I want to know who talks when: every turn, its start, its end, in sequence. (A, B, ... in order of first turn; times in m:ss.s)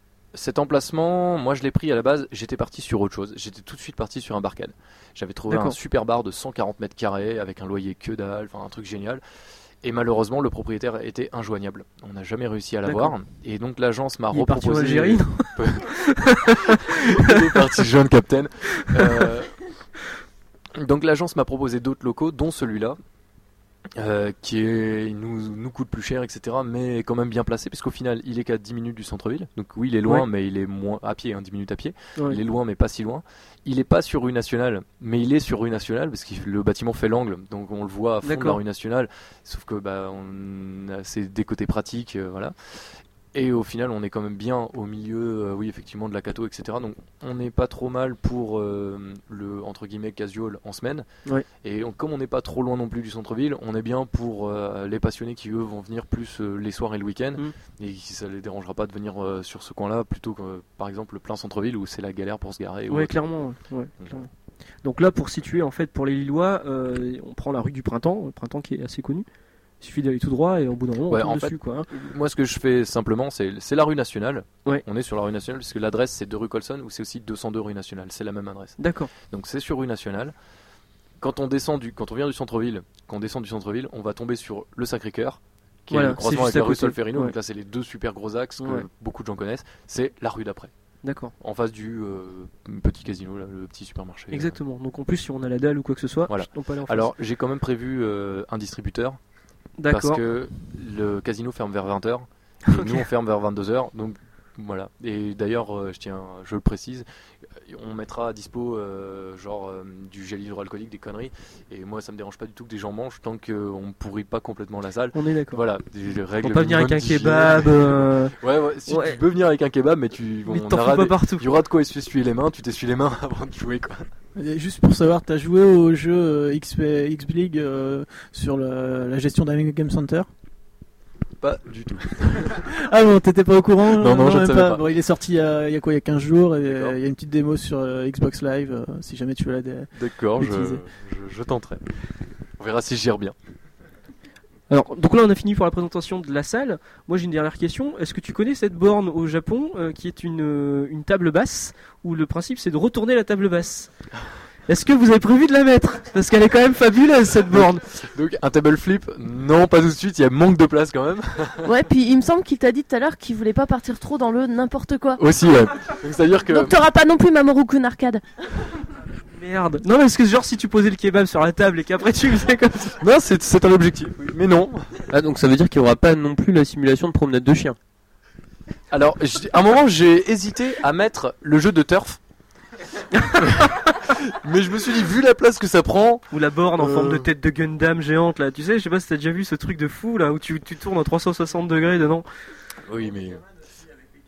0:00.3-0:09.2 A
0:05.5-0:05.8 B
0:09.8-0:16.0 A
0:12.8-0:13.1 B
0:14.3-0:17.6 B
0:16.7-0:19.6 A
0:18.8-0:19.3 B
0:20.8-0:23.0 A
0:24.0-0:51.0 A
0:38.2-0:38.6 B
0:51.6-1:03.2 A
1:02.9-1:04.3 B
1:04.0-1:04.2 A
1:04.8-1:09.2 B
1:09.8-1:11.9 B
1:11.1-1:20.3 A
1:18.8-1:19.1 B
1:21.2-1:30.7 A
1:25.9-1:27.3 B
1:28.6-1:28.8 B
1:31.0-1:31.3 B
1:31.4-1:34.6 A
1:34.3-1:37.1 B
1:36.3-1:39.2 A
1:39.8-1:40.2 B
1:39.9-1:47.0 A
1:42.7-1:43.0 B
1:47.6-2:04.0 A
1:55.1-1:55.6 B
1:56.4-1:58.4 B
1:58.9-1:59.2 B
2:00.5-2:01.5 B
2:04.3-2:10.3 C
2:11.4-2:12.7 A
2:12.6-2:20.8 C
2:13.9-2:14.8 A
2:16.6-2:16.9 A
2:19.9-2:21.8 A
2:22.6-2:23.3 A
2:24.7-2:33.9 B
2:34.7-2:37.8 B
2:37.5-2:41.7 A
2:41.6-2:45.2 D
2:45.2-2:46.7 A
2:46.5-2:48.2 D
2:49.3-2:52.9 B
2:53.0-2:55.0 A
2:55.1-2:57.8 E
2:58.9-3:02.2 A
3:03.3-3:06.2 A
3:06.3-3:12.2 B
3:06.8-3:07.3 A
3:12.8-3:13.4 A